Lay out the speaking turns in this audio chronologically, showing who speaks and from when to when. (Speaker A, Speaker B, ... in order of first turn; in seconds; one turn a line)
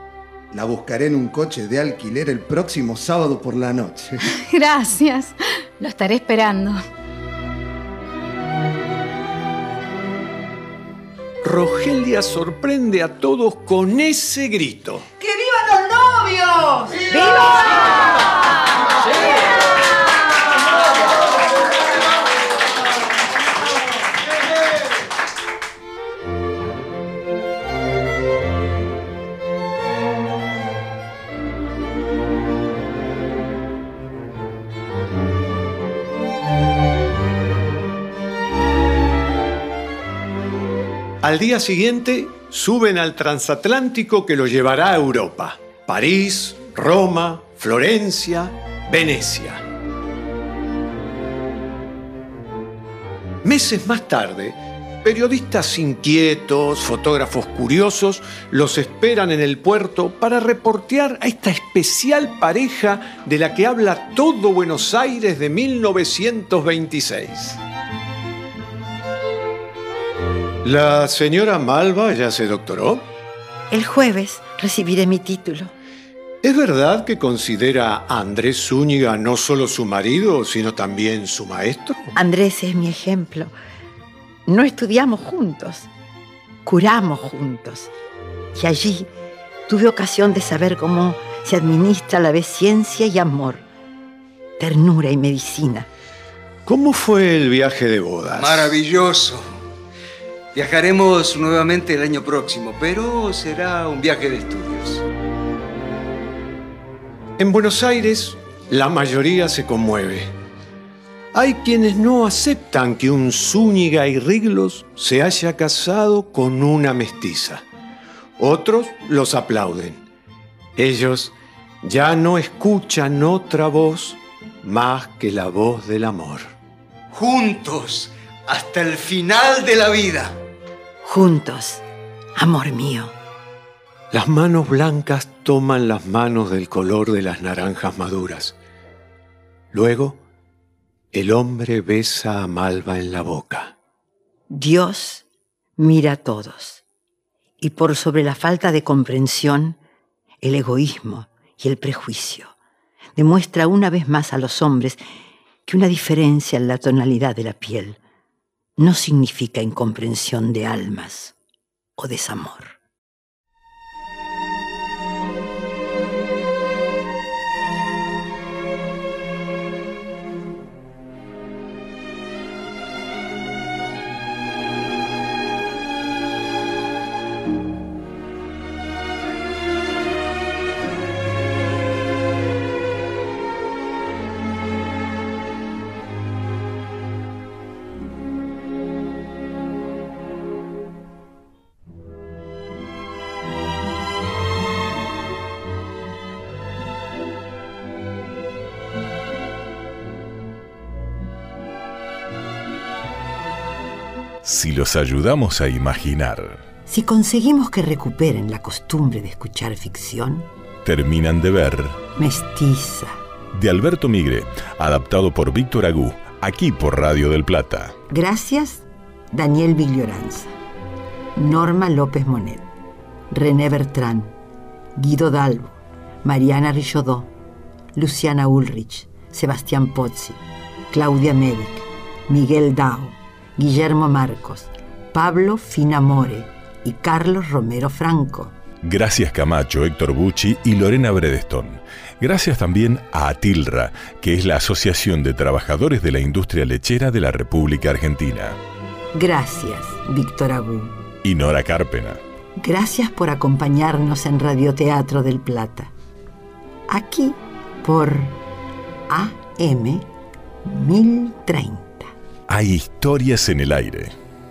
Speaker A: 0.5-4.2
Speaker B: 4.3-6.8
Speaker C: 11.4-15.1
Speaker D: 16.1-16.4
Speaker C: 41.2-49.6
Speaker C: 53.4-67.6
Speaker C: 70.6-73.1
Speaker E: 73.7-75.7
Speaker C: 76.4-82.2
Speaker E: 82.2-83.5
Speaker E: 84.5-85.9
Speaker E: 86.7-87.9
Speaker E: 88.5-89.1
Speaker E: 89.7-93.6
Speaker E: 94.6-95.9
Speaker C: 96.7-98.8
Speaker F: 98.4-99.6
Speaker F: 100.5-105.0
Speaker C: 107.4-110.3
Speaker C: 111.3-117.6
Speaker C: 118.4-120.0
Speaker C: 120.8-126.5
Speaker F: 127.1-130.4
Speaker E: 131.0-131.8
Speaker E: 132.4-133.2
Speaker C: 134.1-138.6
Speaker C: 139.7-140.2
Speaker C: 141.1-143.7
Speaker E: 144.5-145.2
Speaker E: 145.8-146.8
Speaker E: 147.6-149.8
Speaker E: 150.4-152.5
Speaker E: 153.2-155.0
Speaker E: 155.7-158.0
Speaker E: 158.8-161.3
Speaker E: 162.0-162.8
Speaker G: 204.4-206.6
Speaker D: 206.9-210.5
Speaker G: 210.8-212.0
Speaker D: 212.2-213.2
Speaker G: 213.5-218.0
Speaker D: 218.1-220.6
Speaker D: 221.4-222.7
Speaker D: 223.3-224.3
Speaker D: 225.0-227.3
Speaker D: 227.9-230.4
Speaker D: 230.9-238.6
Speaker G: 238.8-248.6
Speaker D: 249.1-251.0
Speaker G: 251.2-252.2
Speaker D: 252.6-255.9
Speaker D: 256.9-258.4
Speaker D: 259.1-260.1
Speaker D: 260.6-262.1
Speaker G: 262.5-264.1